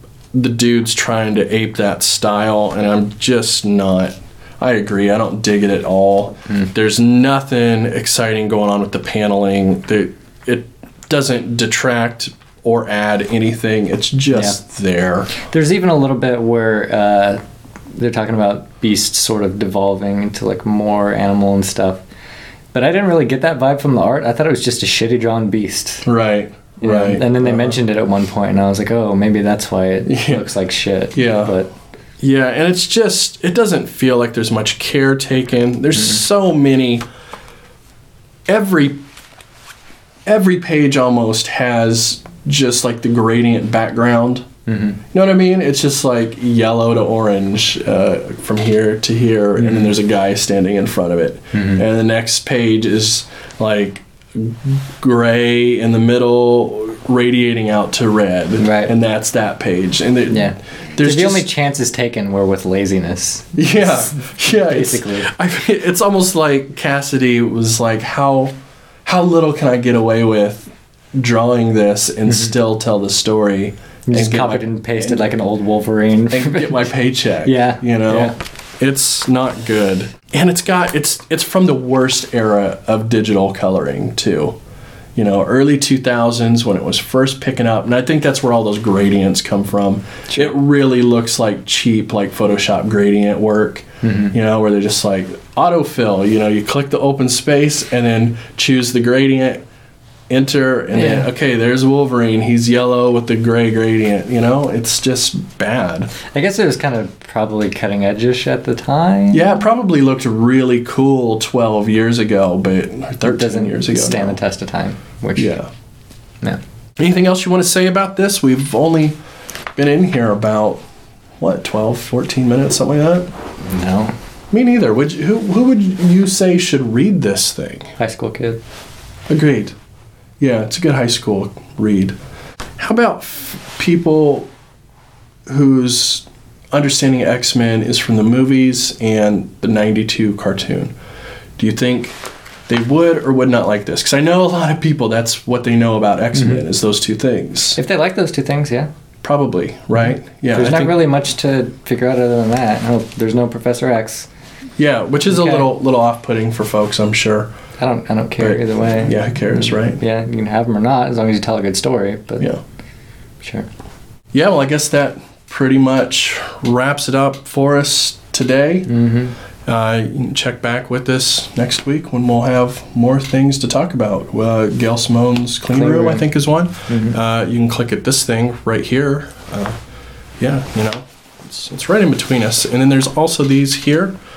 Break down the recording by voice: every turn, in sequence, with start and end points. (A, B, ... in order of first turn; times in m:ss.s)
0:00.3-0:15.4 A
0:14.3-0:14.6 B
0:15.4-0:17.4 B
0:17.9-0:22.0 B
0:22.7-0:26.1 B
0:26.0-0:27.8 A
0:26.8-0:31.7 B
0:30.1-0:30.4 A
0:31.1-0:31.5 A
0:32.2-0:37.0 A
0:36.0-0:36.2 B
0:38.5-0:39.0 A
0:40.2-0:44.5 A
0:44.7-0:45.0 B
0:45.1-1:01.5 A
0:49.6-0:49.9 B
0:51.5-0:51.8 B
0:58.6-0:58.9 B
1:00.3-1:05.3 B
1:03.6-1:08.5 A
1:09.0-1:15.2 A
1:12.3-1:12.6 B
1:14.1-1:16.9 B
1:16.3-1:24.6 A
1:17.4-1:18.3 B
1:25.2-1:39.6 A
1:34.0-1:34.3 B
1:40.3-1:46.1 A
1:40.9-1:41.3 B
1:46.3-1:49.5 B
1:49.3-1:54.4 A
1:53.2-1:55.6 B
1:55.4-1:55.7 A
1:57.0-1:59.2 A
1:59.8-2:00.8 A
2:01.4-2:03.3 A
2:03.6-2:04.1 B
2:04.5-2:07.9 A
2:08.0-2:08.6 B
2:09.3-2:09.7 A
2:10.4-2:12.2 A
2:12.8-2:14.5 A
2:15.5-2:20.9 A
2:21.6-2:22.2 A
2:22.7-2:27.8 A
2:26.3-2:26.6 B
2:27.8-2:28.9 B
2:29.2-2:31.0 A
2:30.5-2:34.3 B
2:34.8-2:37.5 A
2:35.3-2:35.7 B
2:37.8-2:42.5 B
2:38.4-2:40.0 A
2:43.4-2:43.7 B
2:44.3-2:48.9 A
2:48.9-2:49.3 B
2:49.6-2:59.8 A
2:55.7-2:56.3 B
2:56.9-2:57.2 B
3:00.4-3:04.2 A